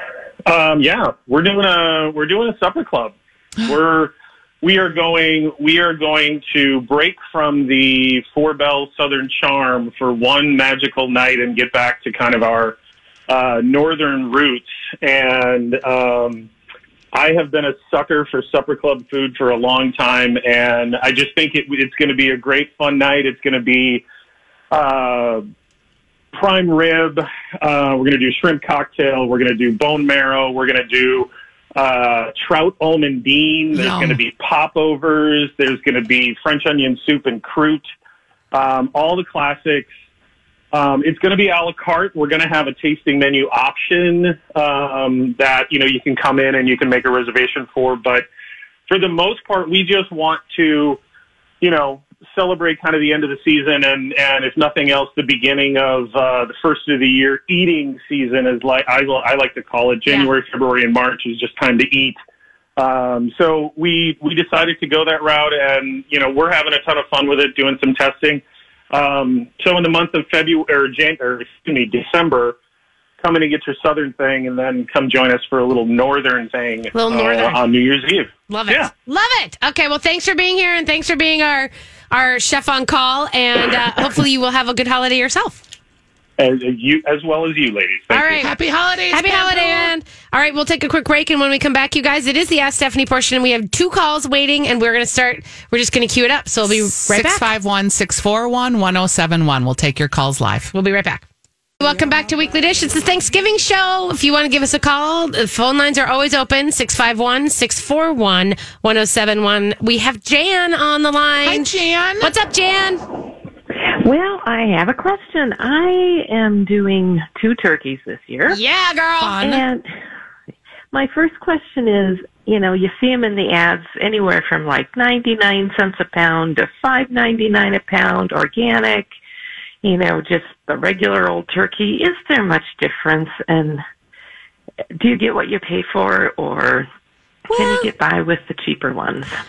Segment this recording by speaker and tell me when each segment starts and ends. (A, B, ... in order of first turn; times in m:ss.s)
0:00.5-0:12.8 A
0:13.3-0:16.5 A
0:17.1-0:24.0 A
0:24.7-0:25.4 A
0:26.3-0:37.8 A
0:33.7-0:34.2 B
0:38.5-0:39.9 A
0:40.7-0:48.3 A
0:48.9-0:51.0 A
0:51.6-1:02.2 A
1:00.1-1:00.3 C
1:02.8-1:12.6 A
1:13.2-1:18.9 A
1:16.9-1:17.6 C
1:18.5-1:25.6 C
1:26.4-1:28.4 A
1:28.1-1:28.5 C
1:28.4-1:29.9 B
1:29.1-1:37.5 C
1:36.6-1:40.7 B
1:40.7-1:41.2 C
1:41.8-1:51.7 C
1:51.4-1:52.3 B
1:52.2-1:53.0 C
1:53.8-1:58.6 D
1:58.5-1:59.6 C
1:59.4-1:59.9 D
2:00.9-2:09.1 D
2:09.8-2:13.8 D
2:15.0-2:16.9 D
2:17.5-2:17.9 C
2:17.5-2:19.3 D